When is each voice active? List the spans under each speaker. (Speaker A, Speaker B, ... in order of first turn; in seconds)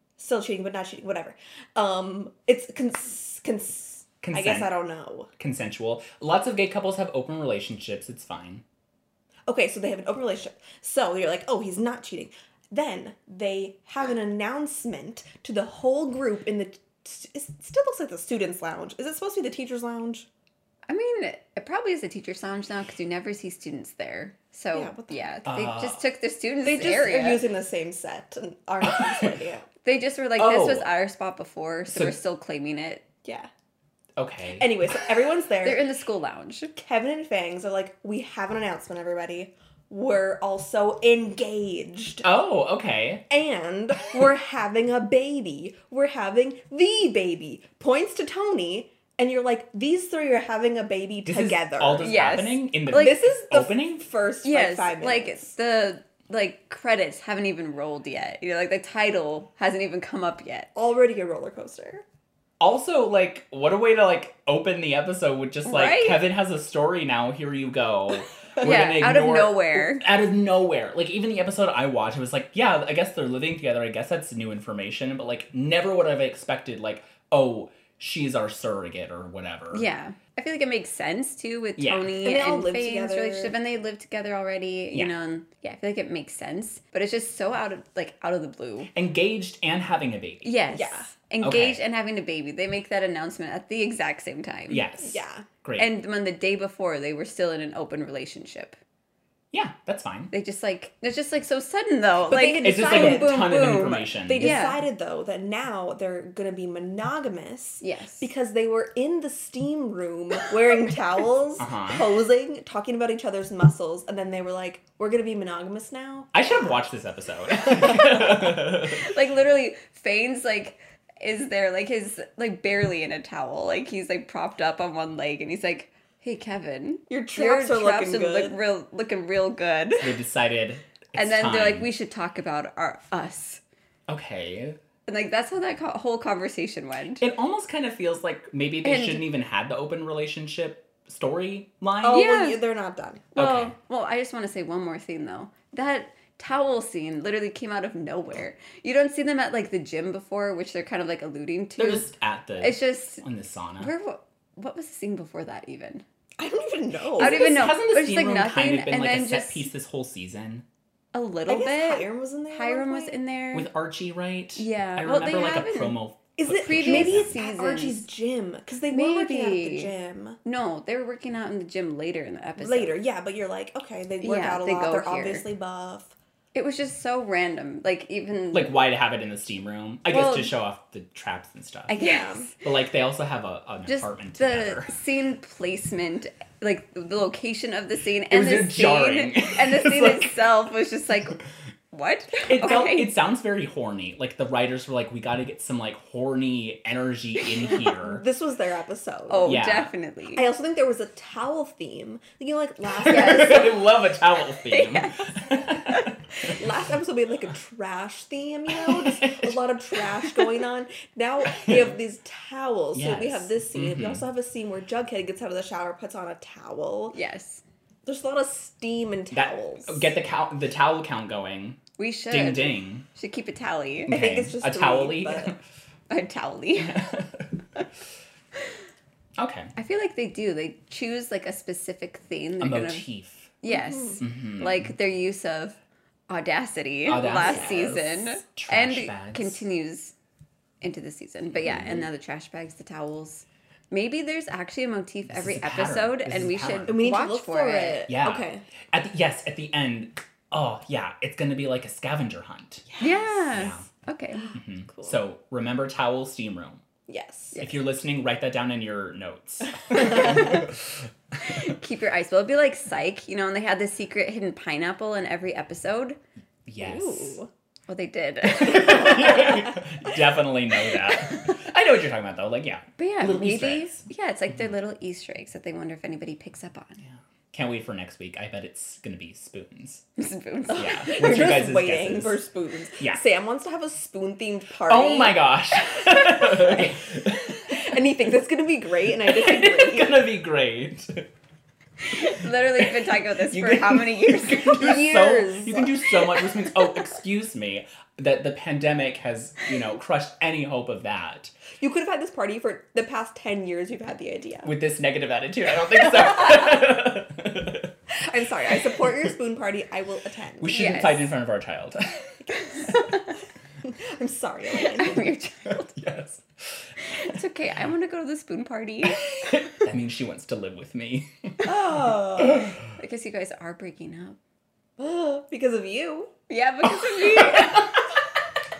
Speaker A: 0.2-5.3, 9.5-20.3, 24.7-25.3, 26.6-29.6, 34.6-35.8, 36.8-42.2, 43.3-52.1, 52.9-55.5, 60.7-62.0, 82.2-83.5, 90.7-91.1, 95.0-95.5, 102.3-103.5, 104.2-116.6, 117.7-118.0, 127.1-128.6, 142.0-143.3, 156.4-157.7, 161.5-163.2, 166.4-170.4, 172.6-176.1, 181.9-182.5, 197.8-199.6, 200.3-203.8, 206.4-217.2, 218.0-220.0, 224.1-225.5, 233.7-234.2, 237.2-237.9, 246.9-248.6, 252.9-253.4, 254.5-255.2, 257.1-257.6, 266.8-267.5, 269.1-269.8, 280.7-286.9, 287.6-290.3, 294.7-296.2, 301.8-304.7, 308.1-310.9, 312.6-313.0, 313.8-315.3, 321.6-322.7, 325.0-326.3
Speaker B: 4.2-4.7, 5.4-8.6, 25.4-26.0, 28.9-29.3, 30.4-30.9, 31.9-32.1, 34.2-34.7, 42.2-43.2, 51.2-54.0, 62.6-79.8, 81.8-82.2, 88.9-90.5, 91.4-91.8, 94.7-95.9, 99.5-100.3, 102.6-104.6, 111.6-112.1, 116.3-119.1, 130.0-131.9, 134.1-134.8, 137.2-142.2, 143.3-143.8, 151.8-153.9, 157.2-160.6, 163.5-167.3, 178.5-182.0, 182.6-184.9, 188.3-190.4, 192.4-198.2, 199.4-199.9, 203.0-206.6, 208.7-209.6, 211.5-211.9, 212.9-214.2, 219.3-223.1, 224.1-225.6, 226.8-227.6, 229.4-229.7, 232.6-233.5, 234.2-234.9, 237.1-239.6, 241.7-242.0, 245.3-246.9, 248.1-252.8, 253.5-253.8, 254.5-256.8, 257.6-261.6, 266.7-267.4, 268.5-274.0, 277.5-280.0, 280.7-282.4, 284.9-287.7, 289.2-291.3, 293.4-301.6, 304.6-307.9, 310.6-312.2, 315.6-317.4, 319.4-322.7, 327.4-327.8
Speaker C: 20.9-27.4, 29.8-33.0, 35.6-36.7, 52.0-53.1, 54.4-60.7, 65.6-66.2, 68.6-70.0, 79.7-88.9, 90.4-94.8, 95.8-98.8, 100.3-104.8, 107.8-108.3, 118.8-130.2, 131.1-133.6, 135.1-137.2, 138.8-139.3, 142.1-142.6, 143.3-153.2, 153.8-156.0, 157.2-159.7, 161.1-163.7, 164.6-166.0, 166.7-168.1, 168.9-169.9, 170.4-173.0, 174.2-175.5, 176.5-178.8, 180.1-180.5, 181.9-182.5, 183.8-191.4, 191.9-193.1, 197.4-197.8, 199.3-200.4, 203.1-203.7, 204.6-206.1, 217.1-217.6, 222.0-224.2, 226.1-227.0, 229.8-233.1, 233.6-235.8, 236.3-240.1, 240.8-248.0, 253.0-254.5, 260.0-260.6, 261.4-266.2, 267.9-269.4, 273.0-277.0, 280.2-281.1, 292.0-294.9, 310.7-311.3, 312.5-313.3, 314.8-315.9, 317.0-319.2, 322.5-324.4, 326.5-328.0